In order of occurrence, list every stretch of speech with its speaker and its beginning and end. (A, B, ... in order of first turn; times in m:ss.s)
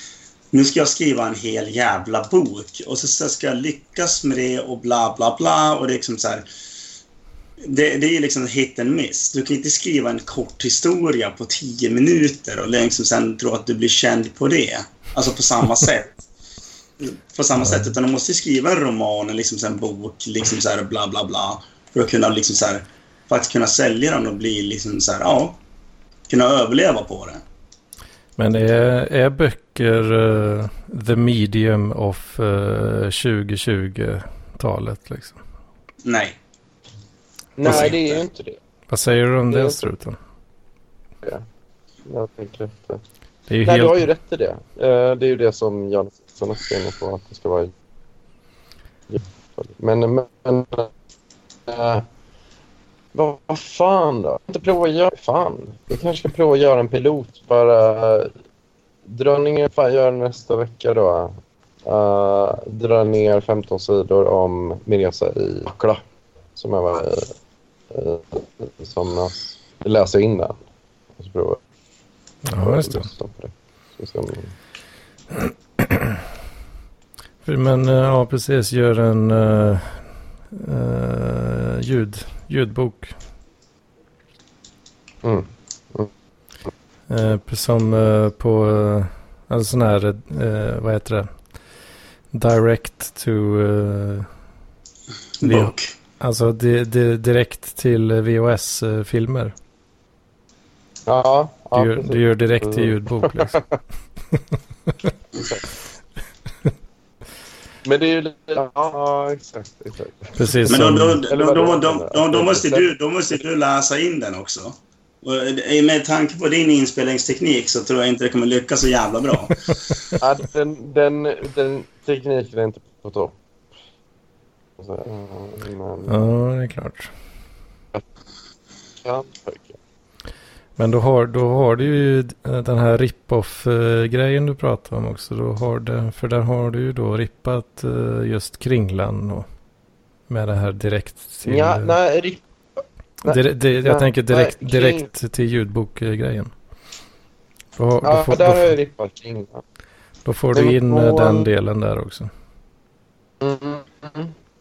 0:00.5-0:06.4 A
0:07.6-0:16.2 A
0:17.0-0:25.6 A
0:17.6-0:17.9 B
0:26.3-0:27.4 A
0:28.4-0:35.4 B
0:36.0-0:36.4 A
0:37.6-0:38.6 C
0:37.6-0:38.2 A
0:37.6-0:37.9 B
0:38.9-0:40.2 B
0:39.5-0:39.8 C
0:42.0-0:43.0 C
0:43.5-0:44.1 B
0:43.6-0:47.7 C
0:49.1-0:50.9 C
0:51.7-0:52.0 C
0:53.1-0:58.3 C
0:59.0-1:06.0 C
1:06.6-1:07.3 C
1:07.9-1:10.6 C
1:11.2-1:11.6 C
1:12.4-1:13.1 B
1:12.6-1:14.5 C
1:15.3-1:16.2 B
1:17.4-1:23.1 B
1:25.2-1:26.1 C
1:27.1-1:31.3 B
1:32.3-1:34.3 B
1:35.4-1:35.9 A
1:35.4-1:39.5 B
1:41.1-1:43.6 C
1:41.7-1:43.6 B
1:44.3-1:44.9 B
1:45.3-1:45.6 C
1:47.8-1:50.5 C
1:50.3-1:51.2 B
1:50.7-1:59.7 A
1:51.2-1:52.9 C
2:00.2-2:03.4 C
2:04.8-2:06.2 C
2:06.1-2:07.1 B
2:09.0-2:09.8 C
2:10.8-2:19.4 B
2:20.3-2:21.9 B
2:21.4-2:22.4 C
2:23.2-2:25.1 C
2:23.2-2:26.5 B
2:27.8-2:28.7 B
2:28.0-2:29.6 C
2:30.2-2:32.3 B
2:30.5-2:31.5 C
2:33.4-2:34.3 C